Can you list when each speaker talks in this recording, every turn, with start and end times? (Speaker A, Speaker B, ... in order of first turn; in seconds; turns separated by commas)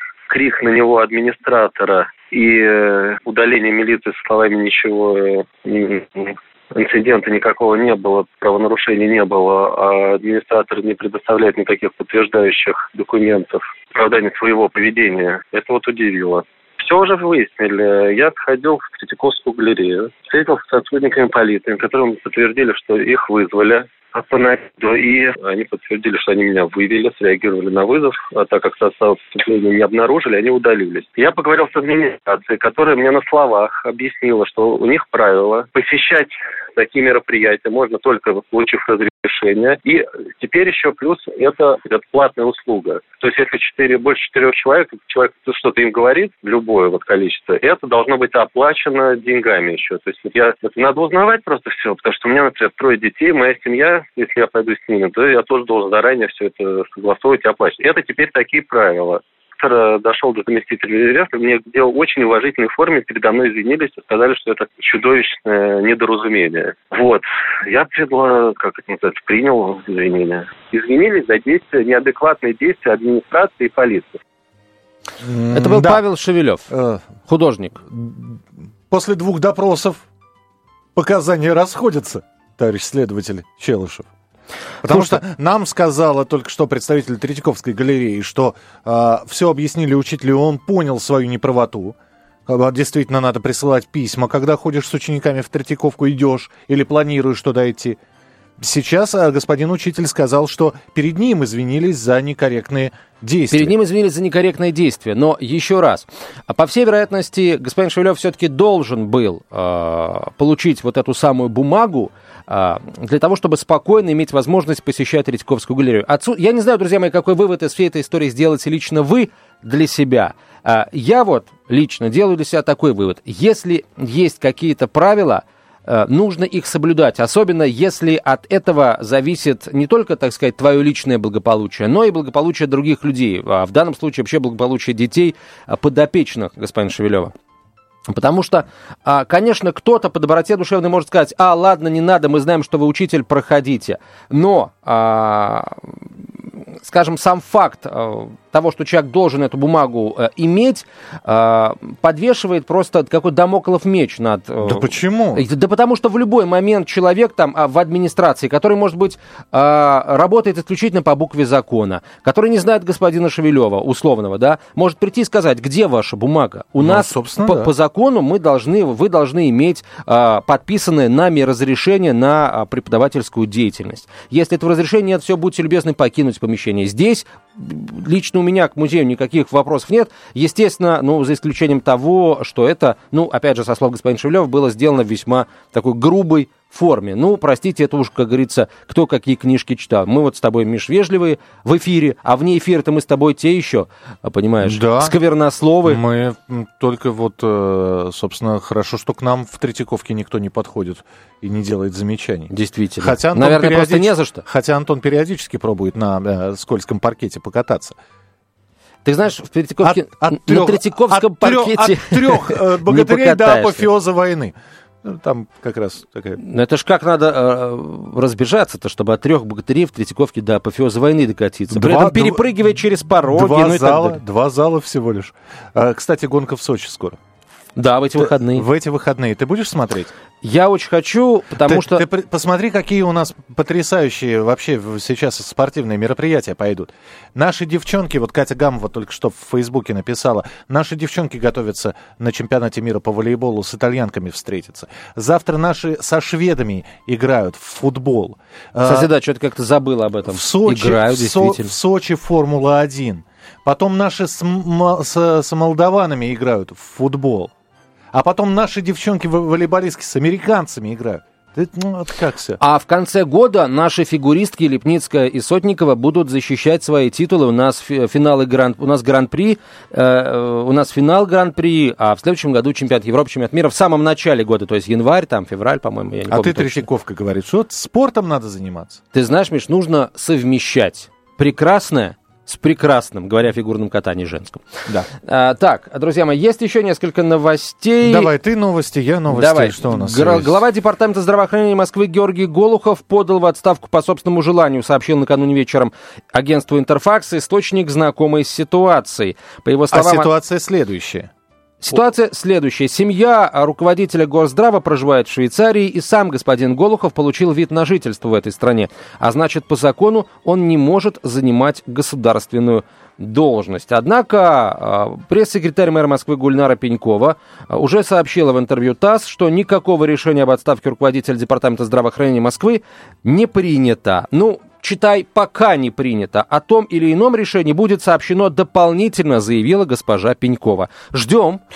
Speaker A: 0.3-74.2, Speaker B: 75.2-76.0, Speaker C: 75.5-76.7, Speaker B: 76.7-77.1, Speaker C: 77.2-77.8, Speaker B: 77.9-80.0, Speaker B: 81.0-84.1, Speaker B: 84.8-92.0, Speaker C: 84.9-85.2, Speaker B: 92.5-98.0, Speaker B: 98.6-103.7, Speaker C: 103.5-137.3, Speaker C: 138.1-145.9, Speaker C: 146.8-196.0, Speaker B: 154.6-155.4, Speaker B: 166.8-167.7, Speaker B: 194.6-195.2, Speaker B: 195.8-208.0, Speaker C: 202.5-204.4, Speaker C: 209.1-213.9, Speaker B: 209.8-216.4, Speaker C: 216.4-224.2, Speaker B: 221.7-222.6, Speaker B: 223.3-227.2, Speaker C: 227.8-228.7, Speaker B: 228.1-230.1, Speaker C: 230.4-232.0, Speaker B: 231.6-249.1, Speaker C: 248.8-251.7, Speaker B: 250.3-257.5, Speaker B: 258.1-262.6, Speaker C: 262.6-276.9, Speaker B: 276.3-279.0, Speaker C: 279.1-284.6, Speaker C: 285.2-288.3, Speaker B: 288.0-290.6, Speaker C: 289.3-300.3, Speaker B: 299.9-301.3, Speaker C: 301.8-331.6